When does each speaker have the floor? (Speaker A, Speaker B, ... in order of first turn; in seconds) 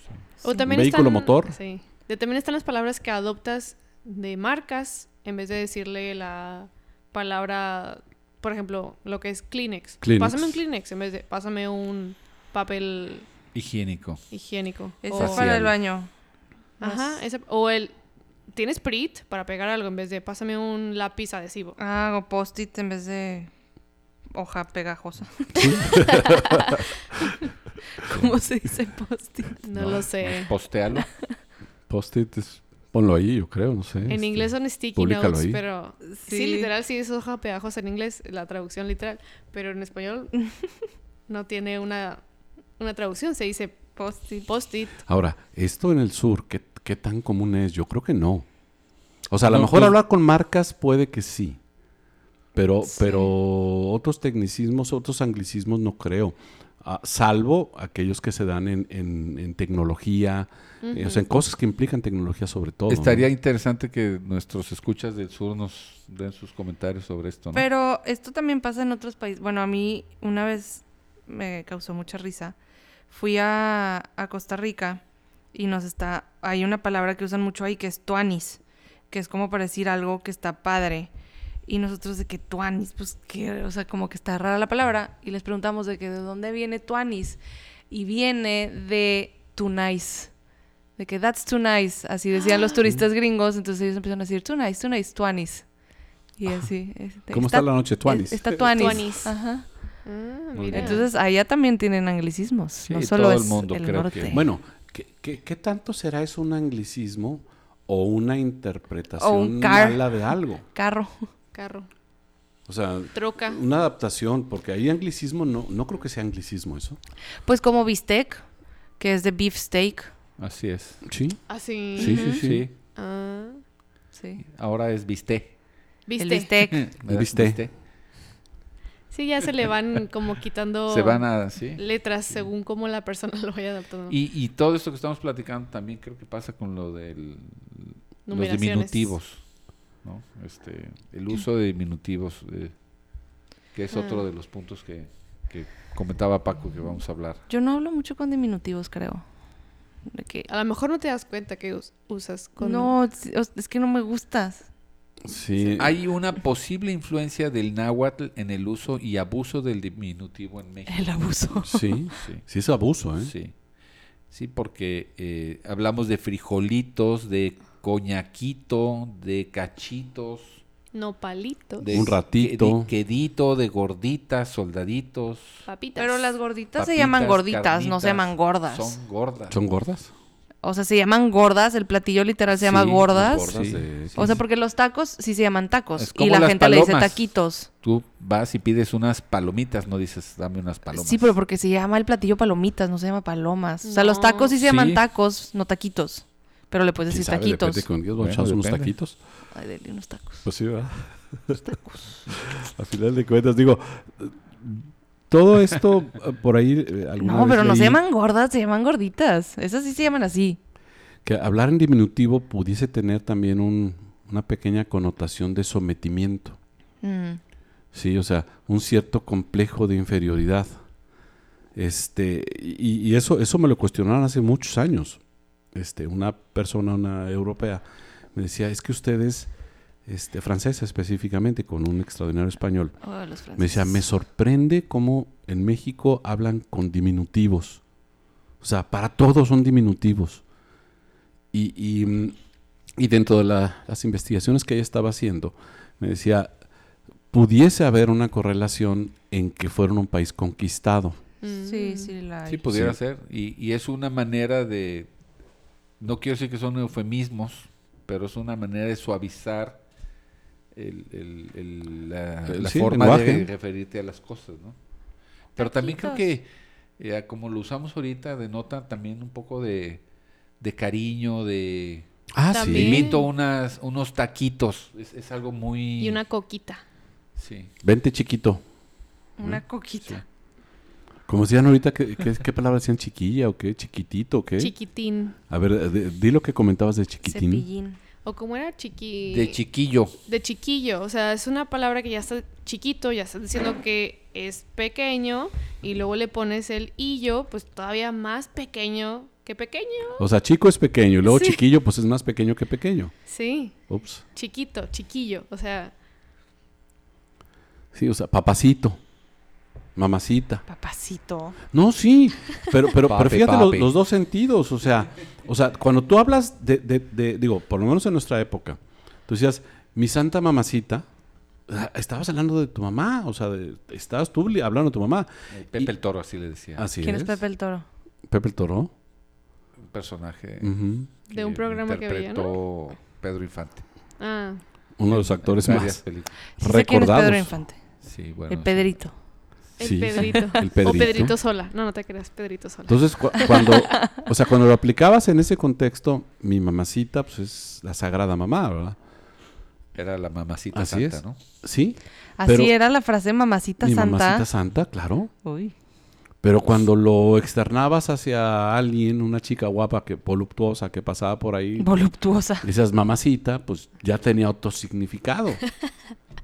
Speaker A: 0.4-13.3, 14.3-15.4, 16.8-17.9, 18.5-21.8, 29.6-30.5, 34.1-40.5, 41.3-42.2, 42.8-43.9, 44.5-45.0, 60.8-61.2, 98.7-99.3, 100.0-101.0, 111.5-111.9, 113.1-113.6, 121.5-123.6, 126.1-126.5, 129.1-134.2, 138.3-139.1, 143.9-144.2, 150.5-152.9, 170.9-171.9, 175.7-176.3, 193.8-194.5, 251.4-252.1, 272.5-273.3, 276.0-276.8, 284.6-285.4, 288.2-289.6, 290.2-300.2, 301.2-301.6, 303.3-303.8, 304.3-305.9, 331.3-332.5, 334.2-334.6, 339.8-343.9
Speaker B: 0.6-1.6, 10.0-10.6, 15.2-15.7, 25.5-26.9, 31.9-35.6, 45.0-48.5, 49.3-51.6, 52.5-63.3, 97.3-99.1, 100.5-101.0, 104.3-110.6, 112.7-117.0, 121.0-121.4, 121.9-122.6, 127.1-127.6, 155.2-156.0, 161.6-163.3, 171.9-172.9, 179.5-180.1, 183.1-184.2, 197.1-199.2, 200.4-201.6, 202.3-208.0, 211.2-216.6, 217.9-220.7, 221.7-225.2, 225.7-227.8, 228.3-229.5, 230.1-233.0, 233.6-237.8, 238.6-240.4, 241.5-242.3, 243.0-246.5, 247.3-251.2, 252.7-253.0, 262.5-263.5, 272.3-273.1, 277.8-278.6, 281.3-284.7, 285.5-287.6, 300.2-303.1, 303.9-304.2, 307.9-309.0, 309.9-310.6, 311.7-321.0, 321.7-325.9, 326.8-327.4, 328.3-328.9, 330.6-331.1, 335.0-336.0, 336.6-337.6, 339.8-341.3, 342.9-348.9, 350.7-352.7, 353.8-355.3, 356.4-361.9, 362.6-365.6
Speaker C: 13.5-14.2, 29.7-31.1, 49.5-49.9, 62.9-67.7, 102.8-104.4, 120.4-121.0, 122.0-122.7, 124.5-125.5, 126.7-127.7, 130.9-132.4, 134.1-139.4, 140.0-142.8, 143.7-147.4, 155.8-161.1, 162.1-162.4, 163.2-163.5, 164.3-170.6, 171.8-175.7, 176.8-179.6, 182.6-184.3, 186.0-187.2, 187.8-191.3, 194.6-195.0, 198.2-198.9, 252.5-255.1, 256.0-259.8, 260.7-264.8, 265.6-266.5, 267.0-270.0, 270.6-272.1, 272.6-276.2, 277.4-277.7, 289.3-290.1, 313.0-313.9, 325.5-326.9, 329.9-333.9, 335.1-336.4, 338.0-339.0, 339.7-340.1, 349.9-351.4
Speaker D: 15.0-16.1, 16.8-17.2, 21.8-23.5, 24.3-26.8, 28.0-29.6, 36.1-36.7, 44.0-44.5, 67.5-72.5, 73.1-75.0, 75.5-81.1, 81.7-87.4, 87.9-90.3, 91.0-95.7, 96.4-99.6, 100.7-104.4, 109.2-111.3, 117.4-118.4, 119.0-120.1, 124.1-124.4, 126.2-126.8, 147.5-149.2, 150.1-150.5, 152.6-154.7, 160.9-162.1, 175.9-178.9, 180.6-183.5, 184.1-187.7, 190.9-197.9, 199.5-200.5, 201.6-202.3, 207.2-210.6, 217.0-217.4, 233.0-234.0, 251.6-252.6, 265.6-266.3, 279.4-280.2, 287.2-288.0, 310.7-311.6, 327.0-327.8, 336.6-337.8, 338.5-339.2, 352.4-354.5, 355.4-355.7, 361.8-362.7